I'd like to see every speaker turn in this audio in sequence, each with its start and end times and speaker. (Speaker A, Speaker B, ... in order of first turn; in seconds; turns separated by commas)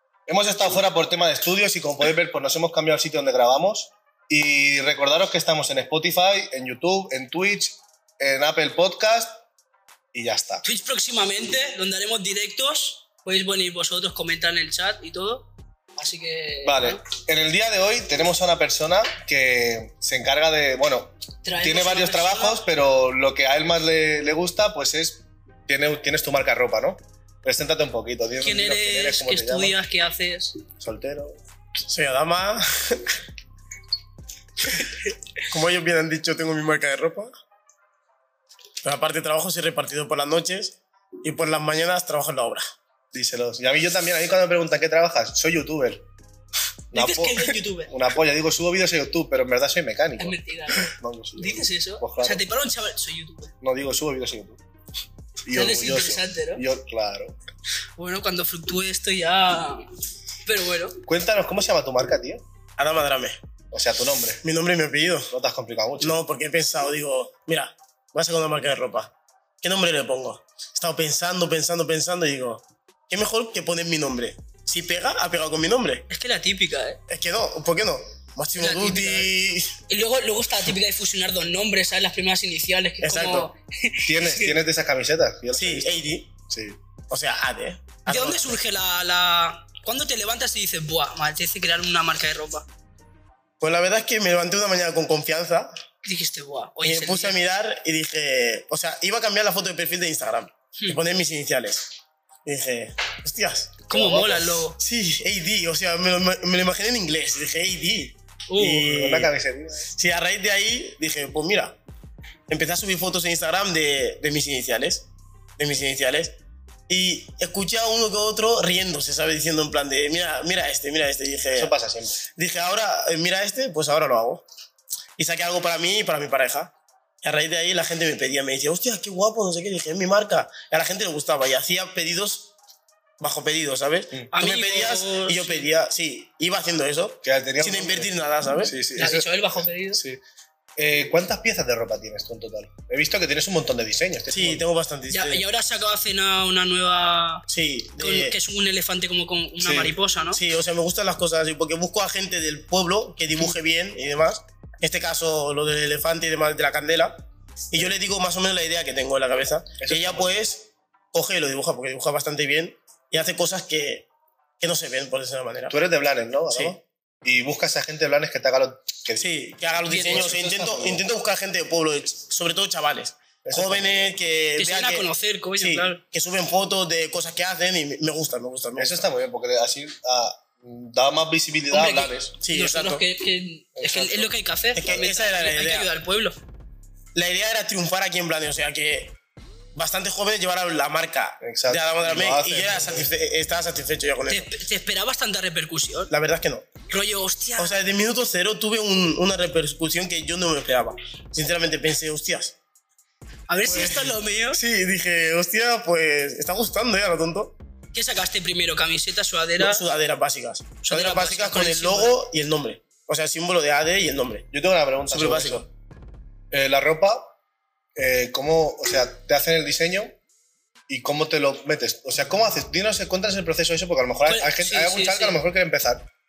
Speaker A: 0.3-9.4, Speaker A: 10.1-10.6, Speaker B: 10.6-17.0, Speaker A: 16.6-29.7, Speaker B: 21.4-22.6, Speaker B: 28.4-30.6, Speaker A: 30.8-31.4, Speaker C: 31.9-33.2, Speaker B: 34.8-35.1, Speaker C: 35.5-37.3, Speaker C: 38.8-42.7, Speaker A: 43.1-46.0, Speaker B: 46.9-47.9, Speaker A: 46.9-52.4, Speaker B: 50.2-53.5, Speaker A: 53.6-54.6, Speaker A: 55.5-57.4, Speaker B: 55.5-56.6, Speaker B: 58.0-59.9, Speaker B: 60.5-61.0, Speaker A: 61.0-62.4, Speaker C: 62.8-63.4, Speaker A: 63.7-64.4, Speaker C: 64.4-65.3, Speaker A: 65.3-66.2, Speaker C: 66.0-76.0, Speaker B: 76.1-77.0, Speaker C: 77.1-79.8, Speaker B: 78.6-79.3, Speaker B: 79.9-84.6, Speaker C: 83.0-83.5, Speaker A: 84.0-86.8, Speaker C: 85.5-86.3, Speaker C: 87.1-88.6, Speaker B: 88.1-92.7, Speaker C: 93.6-95.7, Speaker B: 96.0-97.4, Speaker C: 96.8-101.9, Speaker C: 102.4-103.8, Speaker B: 103.9-104.8, Speaker A: 103.9-104.6, Speaker C: 104.8-109.3, Speaker B: 108.5-108.9, Speaker A: 108.8-109.9, Speaker C: 109.9-111.8, Speaker C: 112.5-115.1, Speaker C: 115.6-116.3, Speaker C: 116.9-121.7, Speaker A: 121.5-122.2, Speaker C: 122.3-124.4, Speaker C: 125.2-132.5, Speaker C: 133.2-138.7, Speaker B: 134.3-135.7, Speaker A: 137.2-140.2, Speaker B: 138.9-140.0, Speaker A: 140.8-144.6, Speaker C: 144.3-145.4, Speaker B: 145.1-147.4, Speaker C: 147.5-148.4, Speaker B: 148.0-150.4, Speaker C: 149.6-164.1, Speaker A: 159.8-160.3, Speaker C: 164.6-165.7, Speaker A: 165.7-171.1, Speaker C: 166.5-166.8, Speaker C: 169.2-179.1, Speaker B: 169.9-170.2, Speaker A: 173.4-174.2, Speaker B: 174.6-176.0, Speaker A: 178.8-182.3, Speaker B: 181.7-186.3, Speaker C: 182.4-183.0, Speaker A: 183.8-184.3, Speaker C: 184.7-185.9, Speaker C: 187.1-189.2, Speaker C: 189.7-194.5, Speaker A: 191.4-193.1, Speaker B: 194.3-196.1, Speaker C: 196.1-196.7, Speaker B: 196.9-197.8, Speaker C: 197.6-202.6, Speaker B: 203.5-204.6, Speaker C: 203.7-207.6, Speaker B: 207.9-209.8, Speaker C: 209.6-214.5, Speaker B: 210.8-212.1, Speaker A: 214.5-215.7, Speaker C: 215.1-215.7, Speaker A: 216.5-217.3, Speaker A: 217.9-220.2, Speaker A: 220.9-226.0, Speaker B: 224.3-225.4